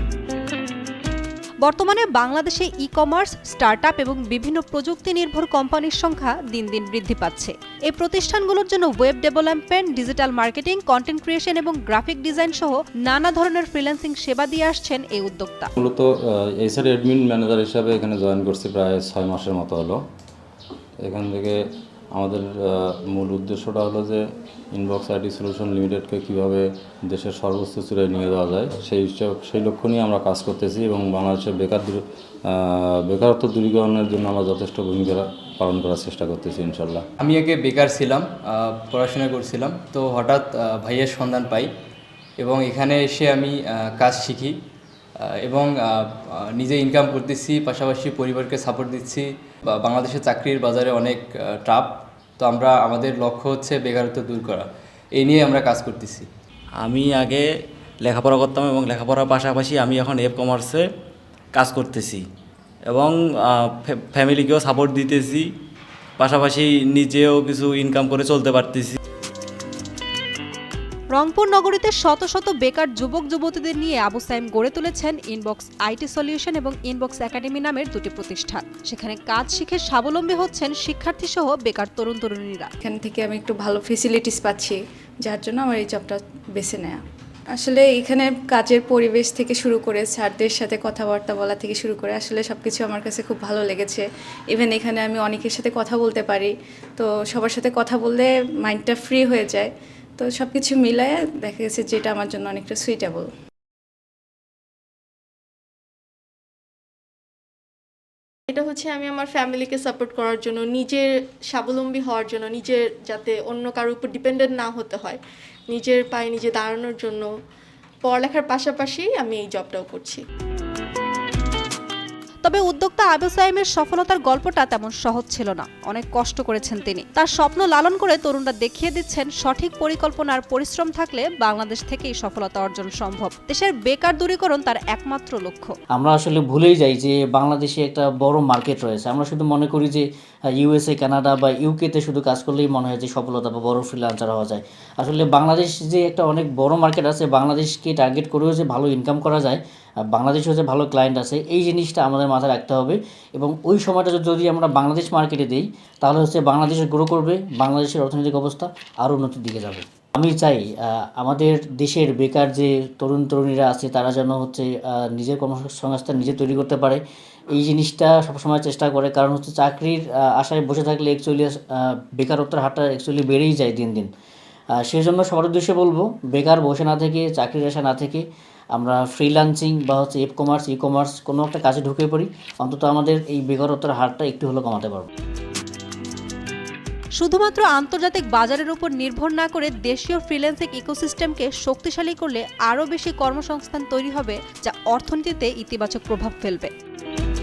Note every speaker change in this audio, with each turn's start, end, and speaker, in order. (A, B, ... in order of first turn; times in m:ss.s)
0:01.6-0:15.7 A
0:15.8-0:20.0 B
0:21.0-0:21.6 B
0:22.2-0:37.1 B
0:37.2-0:41.7 C
0:42.4-0:44.6 C
0:45.2-0:56.3 C
0:56.8-0:57.5 D
0:58.0-1:00.9 D
1:01.5-1:02.2 D
1:02.9-1:05.5 D
1:06.2-1:09.0 D
1:11.1-1:22.7 A
1:22.8-1:27.0 E
1:27.6-1:43.3 E
1:48.5-1:57.3 F
1:58.0-2:00.2 F
2:02.4-2:15.7 A
2:15.9-2:20.0 G
2:20.6-2:47.0 G
2:47.6-2:54.1 G
2:54.8-3:05.1 G
3:07.2-3:16.7 A